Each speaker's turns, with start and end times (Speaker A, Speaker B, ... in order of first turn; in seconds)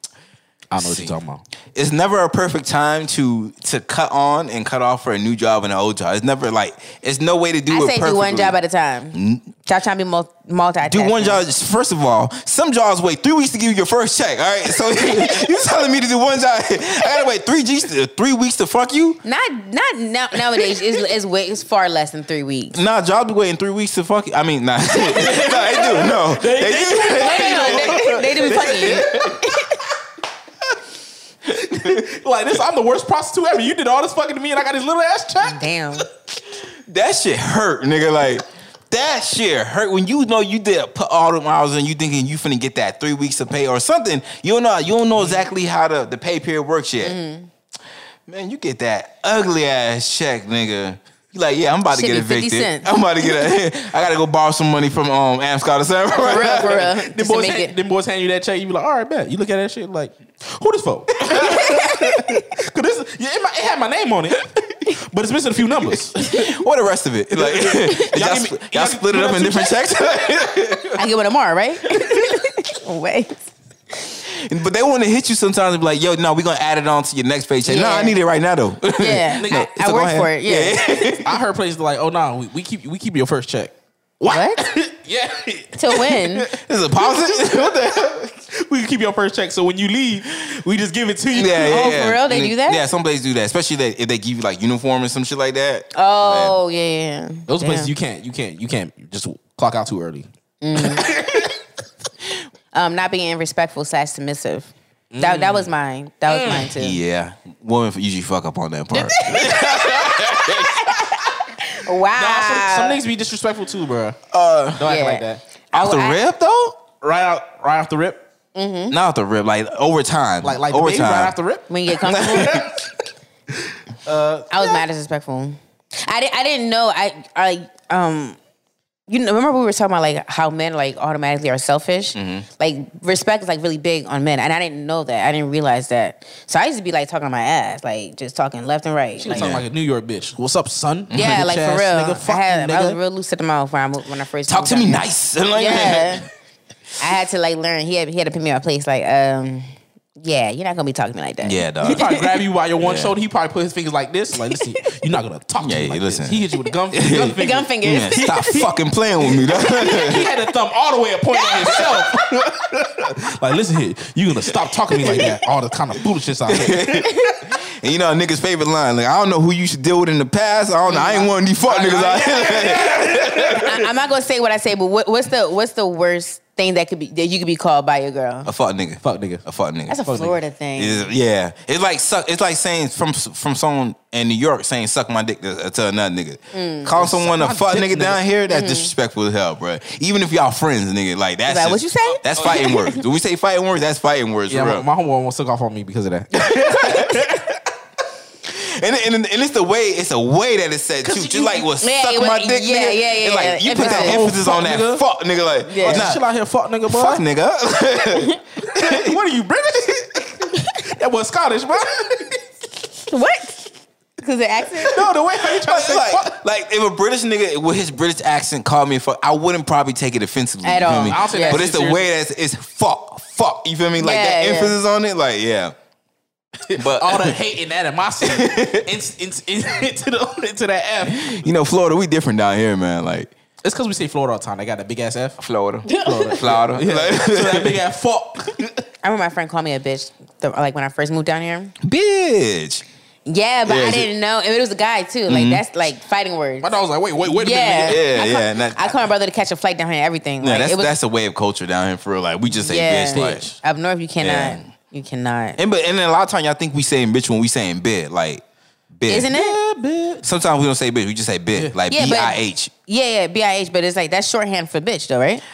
Speaker A: 0.7-1.4, 25.0-29.3, 31.5-35.7, 57.0-66.5, 67.3-70.5, 79.4-79.7, 81.2-91.8, 97.5-101.5, 105.1-105.7, 106.3-106.7, 109.5-110.2, 112.2-114.2, 114.8-115.4, 117.0-118.2, 120.4-122.9, 123.6-124.8, 139.2-143.0, 151.8-158.7, 159.3-167.1, 171.6-173.8, 179.0-179.4, 180.1-180.4, 187.0-188.2, 194.5-197.5, 201.0-201.7, 203.8-205.1, 205.8-207.2, 208.6-212.4, 214.8-216.4, 221.0-222.1, 226.7-231.4, 233.6-235.4, 236.0-238.8, 246.6-248.1, 253.1-253.6, 259.3-260.3
Speaker B: 0.8-1.1, 1.8-8.6, 9.1-9.5, 10.9-19.2, 22.7-29.4, 31.7-32.0, 36.6-47.2, 48.3-56.9, 61.3-62.1, 66.2-70.9, 74.3-81.4, 86.5-88.4, 91.3-96.6, 106.7-111.0, 114.3-114.9, 115.7-116.8, 118.9-121.3, 122.0-122.7, 132.2-132.5, 139.3-139.7, 141.2-141.4, 144.5-146.3, 151.4-152.1, 152.8-153.1, 155.6-160.3, 165.0-165.3, 166.5-173.8, 178.5-180.0, 180.8-194.9, 196.3-197.5, 198.5-206.2, 206.9-209.2, 215.4-225.7, 226.8-227.3, 228.2-228.9, 231.1-233.3, 235.4-237.8, 241.8-242.8, 243.7-244.1, 245.3-245.6, 247.8-248.9, 250.4-253.5, 254.2-254.7, 255.6-259.3, 260.2-262.7
Speaker C: 7.7-11.4, 19.2-22.8, 27.2-29.8, 35.4-36.1, 47.0-47.5, 51.9-52.9, 56.1-57.8, 71.0-73.4, 77.7-78.2, 79.0-80.8, 84.3-84.6, 85.8-86.5, 91.4-92.8, 95.9-97.9, 100.6-101.1, 102.7-107.0, 108.9-113.0, 114.8-116.2, 118.5-119.0, 121.7-122.6, 124.5-128.4, 129.1-139.4, 141.1-146.3, 147.0-149.7, 150.2-152.2, 157.4-158.6, 159.9-160.1, 161.4-161.8, 167.1-167.4, 170.9-171.3, 173.6-178.5, 179.9-181.1, 186.5-186.9, 188.5-188.9, 191.5-193.0, 201.8-204.2, 205.7-206.1, 213.1-215.0, 220.6-221.7, 224.0-224.8, 239.0-241.8, 243.3-246.7, 247.3-251.0, 252.6-255.6, 259.1-259.6, 261.9-265.4